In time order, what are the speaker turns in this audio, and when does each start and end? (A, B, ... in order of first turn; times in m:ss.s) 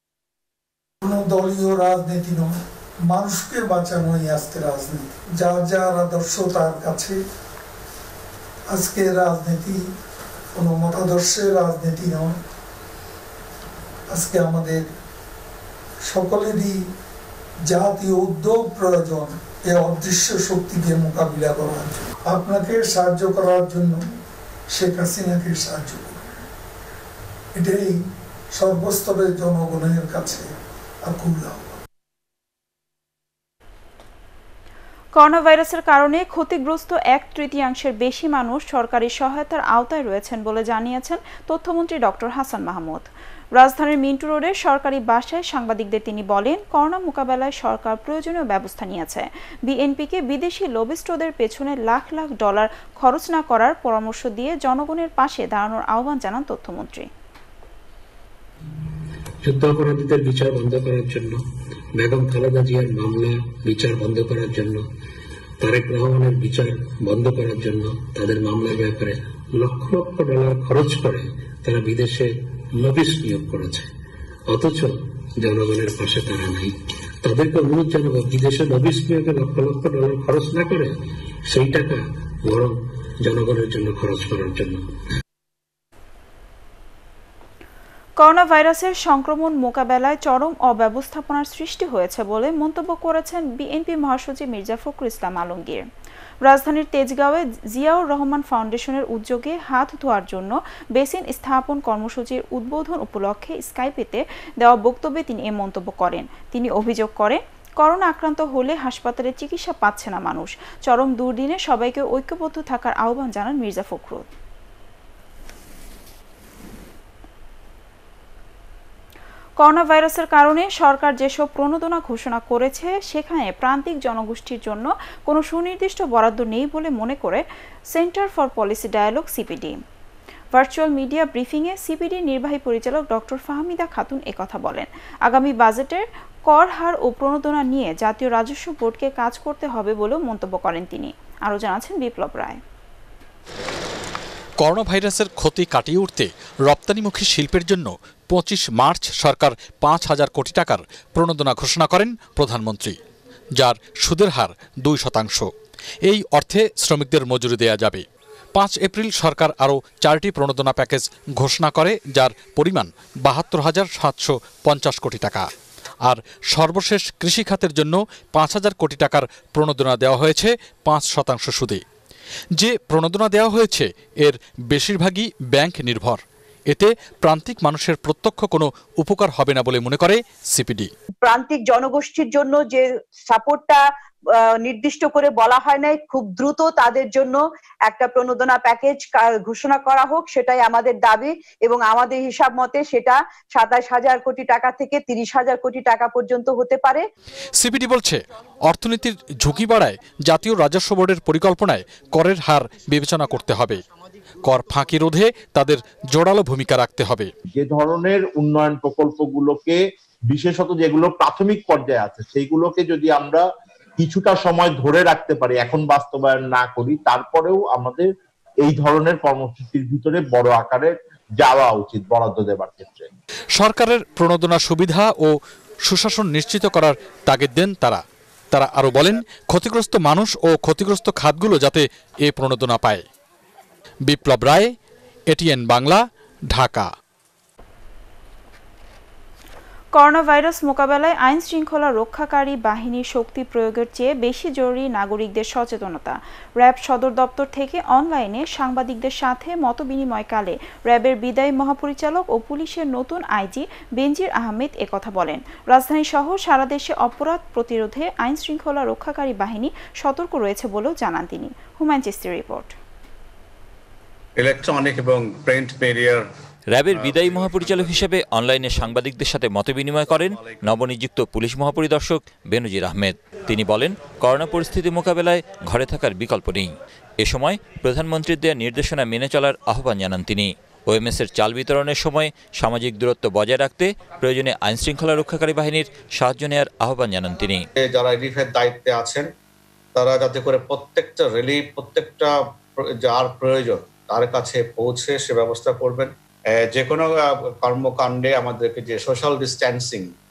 0:01.0-0:02.6 A
0:03.1-0:07.2 A
0:08.7-0:09.8 A
0:10.6-0:12.4 A
0:14.1-0:14.8 A
0:16.0-0:16.8 A
0:17.7-0:24.0 A
0:24.7-0:26.2 A
0:27.6-0:28.0 A
0:28.5-0:30.4 A
0:31.0-0:31.8 A
0:35.1-0:57.1 B
0:59.4-1:04.9 C
1:05.6-1:13.9 C
1:14.5-1:20.9 C
1:21.5-1:24.8 C
1:28.2-1:35.8 B
1:36.4-1:54.3 B
1:59.6-2:09.8 B
2:10.5-2:22.6 B
2:24.6-2:33.0 D
2:33.6-2:35.5 D
2:36.0-2:45.5 D
2:46.0-2:51.8 D
2:52.6-3:00.9 D
3:01.2-3:03.8 E
3:04.6-3:17.0 E
3:17.6-3:23.8 D
3:24.4-3:27.3 D
3:27.5-3:29.8 F
3:30.3-3:33.4 F
3:34.0-3:38.1 F
3:38.6-3:43.1 F
3:43.5-3:45.3 D
3:45.8-3:53.0 D
3:54.0-3:54.7 D
3:55.3-3:56.9 D
3:59.9-4:22.7 B
4:24.4-4:26.2 G
4:26.7-4:36.7 H
4:26.9-4:29.3 G
4:30.0-4:30.6 G
4:37.2-4:47.6 H
4:47.8-4:49.3 G
4:49.9-5:00.1 G